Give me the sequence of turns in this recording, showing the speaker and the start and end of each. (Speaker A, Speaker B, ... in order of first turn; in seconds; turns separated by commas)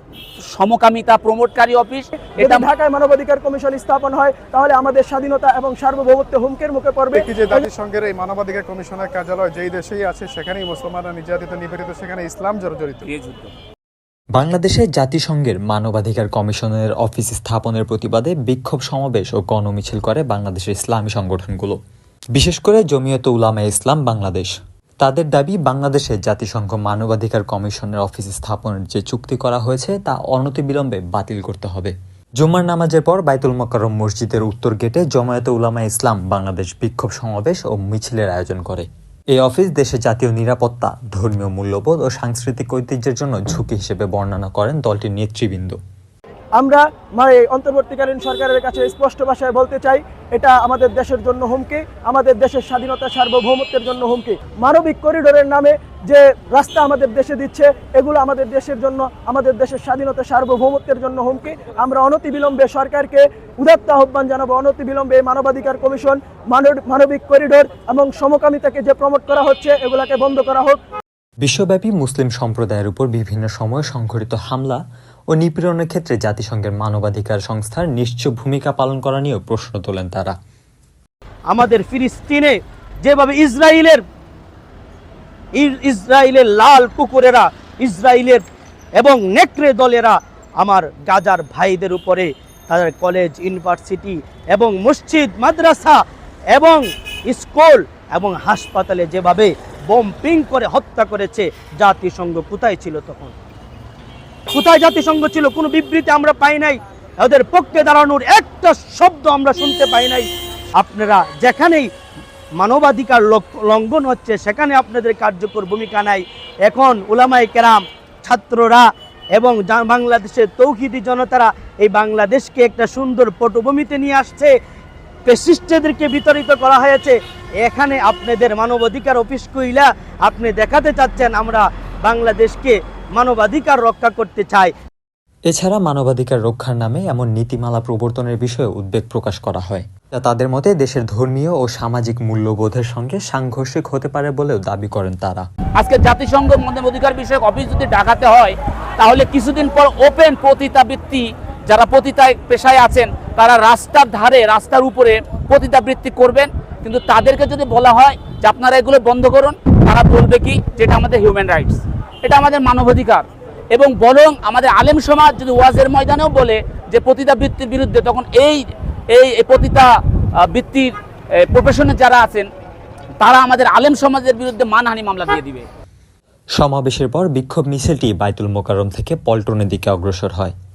Speaker A: 0.5-2.7, Speaker B: 2.4-7.7, Speaker C: 7.1-13.1, Speaker A: 13.1-13.5, Speaker D: 14.4-21.8, Speaker D: 22.4-45.8, Speaker B: 46.6-70.8, Speaker D: 71.4-80.3, Speaker E: 81.5-84.0, Speaker E: 85.6-88.4, Speaker E: 89.0-96.0, Speaker E: 96.5-103.3, Speaker E: 104.5-110.2, Speaker E: 110.8-111.9, Speaker E: 112.6-118.8, Speaker E: 119.4-124.5, Speaker E: 125.3-134.7, Speaker D: 135.5-145.5, Speaker A: 145.8-169.9, Speaker A: 170.5-170.9, Speaker A: 171.4-172.5, Speaker A: 173.2-175.7, Speaker D: 176.6-180.6